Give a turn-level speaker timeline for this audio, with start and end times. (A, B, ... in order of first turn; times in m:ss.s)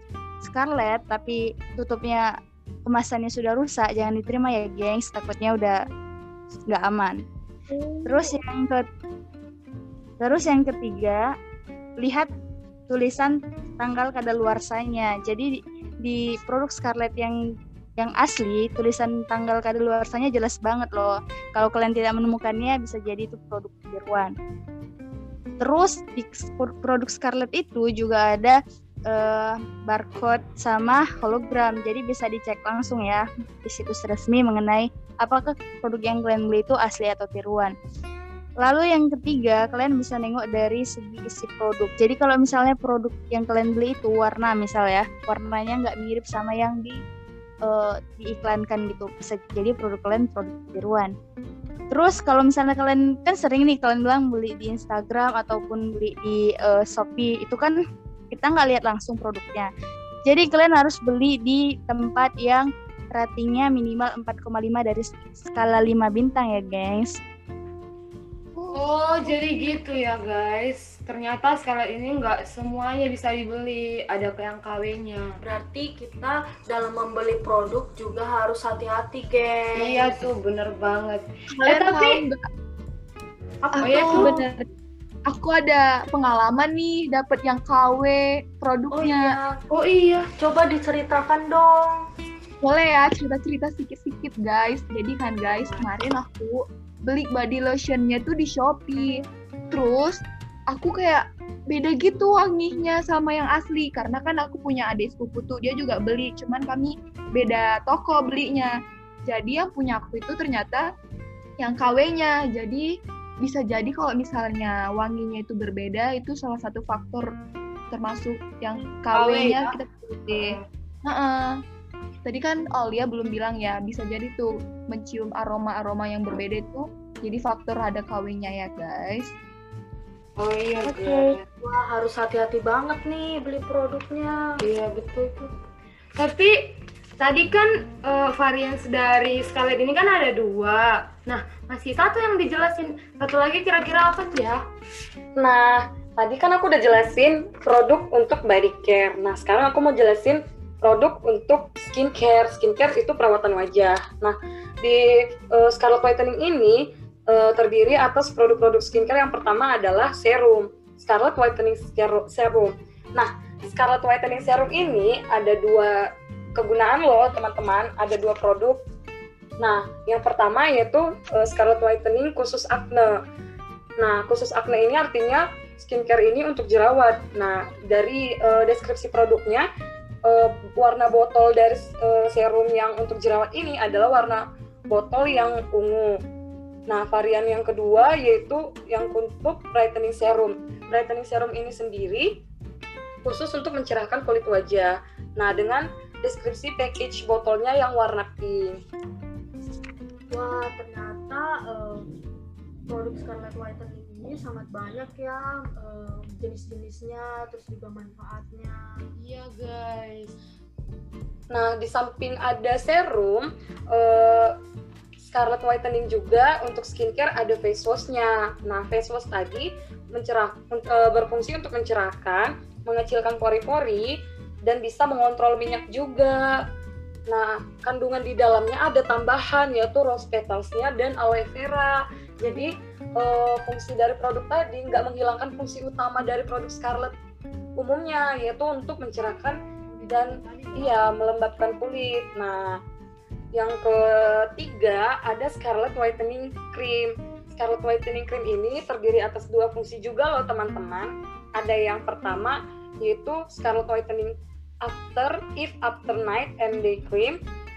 0:00.4-0:02.3 A
0:02.8-0:05.8 A
0:06.7-0:07.2 A
0:07.9-0:08.2 B
0:08.0-0:08.8 A
0:10.2-0:11.2 A
0:12.0-0:12.3 A
0:12.9-0:15.5 A
0:16.0-0:17.4 A
0:18.0-0:24.3 A
0:25.6-0:28.6 A
0:29.1-0:37.7 A
0:38.6-0:47.0 A
0:47.7-0:51.1 A
0:51.9-0:57.8 A
0:58.3-0:59.7 A
1:00.3-1:07.2 A
1:08.7-1:15.3 C
1:15.4-1:20.2 D
1:19.8-1:22.2 C
1:21.6-1:22.4 B
1:23.6-1:24.3 D
1:23.8-1:24.7 B
1:23.8-1:24.4 C
1:25.3-1:29.4 B
1:28.9-1:29.6 D
1:29.7-1:30.2 C
1:30.3-1:32.0 D
1:32.6-1:39.2 B
1:35.5-1:35.9 D
1:39.7-1:48.7 B
1:49.2-1:50.9 B
1:51.6-1:52.9 B
1:53.4-1:57.3 B
1:57.9-2:01.5 B
1:59.1-1:59.8 C
2:00.3-2:00.6 C
2:02.2-2:09.3 B
2:10.4-2:11.4 C
2:11.6-2:14.6 D
2:14.6-2:15.5 C
2:16.2-2:24.6 C
2:25.4-2:36.8 E
2:37.3-2:46.0 E
2:46.6-2:48.8 E
2:49.6-2:53.2 E
2:54.0-2:59.7 E
3:00.2-3:06.1 E
3:06.9-3:12.4 E
3:13.2-3:18.8 E
3:20.3-3:22.1 D
3:22.9-3:28.8 D
3:29.2-3:30.3 C
3:31.5-3:34.5 E
3:35.3-3:44.1 E
3:44.6-3:46.4 E
3:47.3-3:57.1 E
3:57.8-4:02.8 E
3:59.9-4:01.0 C
4:03.6-4:17.4 E